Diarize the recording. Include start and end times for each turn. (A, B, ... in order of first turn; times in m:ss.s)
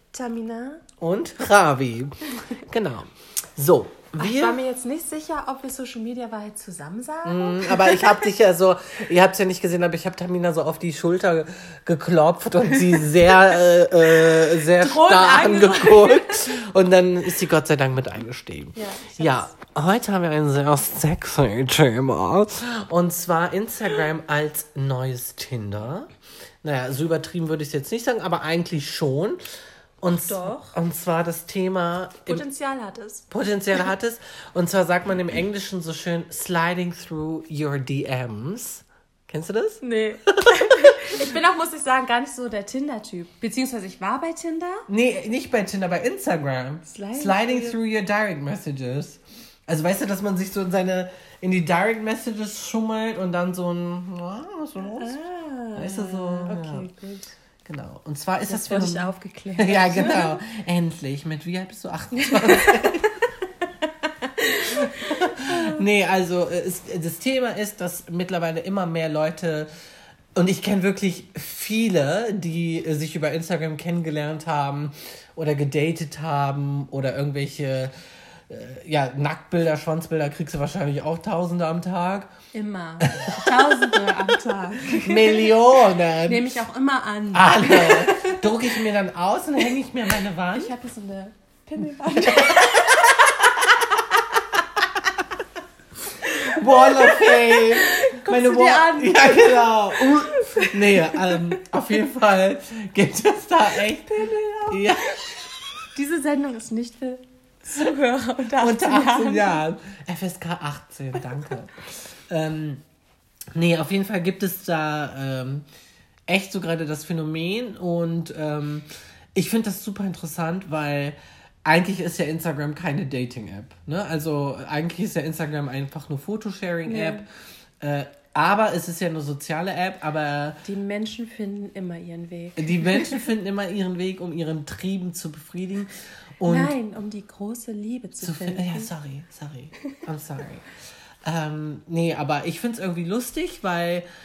0:00.1-0:00.8 A
0:01.0-0:04.6 B
0:04.2-0:08.3 A
0:07.2-0:26.1 B
0:14.2-0:16.4 A
0:18.7-0:19.5 A
0:26.6-0:29.4 B
0:30.0-0:32.4 B
0:30.0-0:30.8 A
0:32.3-0:33.3 A
0:33.3-0:41.1 B
0:39.8-0:44.8 A
0:44.9-0:55.2 B
0:46.9-0:47.8 A
0:55.0-0:57.3 A
0:55.7-0:56.9 B
0:57.6-1:03.0 B
0:58.5-1:00.4 A
1:02.1-1:05.8 A
1:04.8-1:09.7 B
1:10.3-1:17.9 B
1:18.5-1:22.3 B
1:22.5-1:25.7 A
1:23.1-1:23.4 B
1:24.9-1:26.6 B
1:26.2-1:28.8 A
1:27.3-1:30.7 B
1:30.5-1:34.2 A
1:32.2-1:33.1 B
1:36.2-1:41.6 A
1:36.3-1:45.2 B
1:44.0-1:45.4 A
1:45.9-1:49.6 A
1:48.6-1:52.8 B
1:53.5-1:55.6 B
1:56.3-2:07.2 B
2:06.8-2:07.2 A
2:07.8-2:10.6 B
2:10.6-2:13.2 A
2:12.6-2:15.9 B
2:16.4-2:16.7 B
2:16.4-2:18.9 A
2:18.2-2:20.7 B
2:21.2-2:24.0 B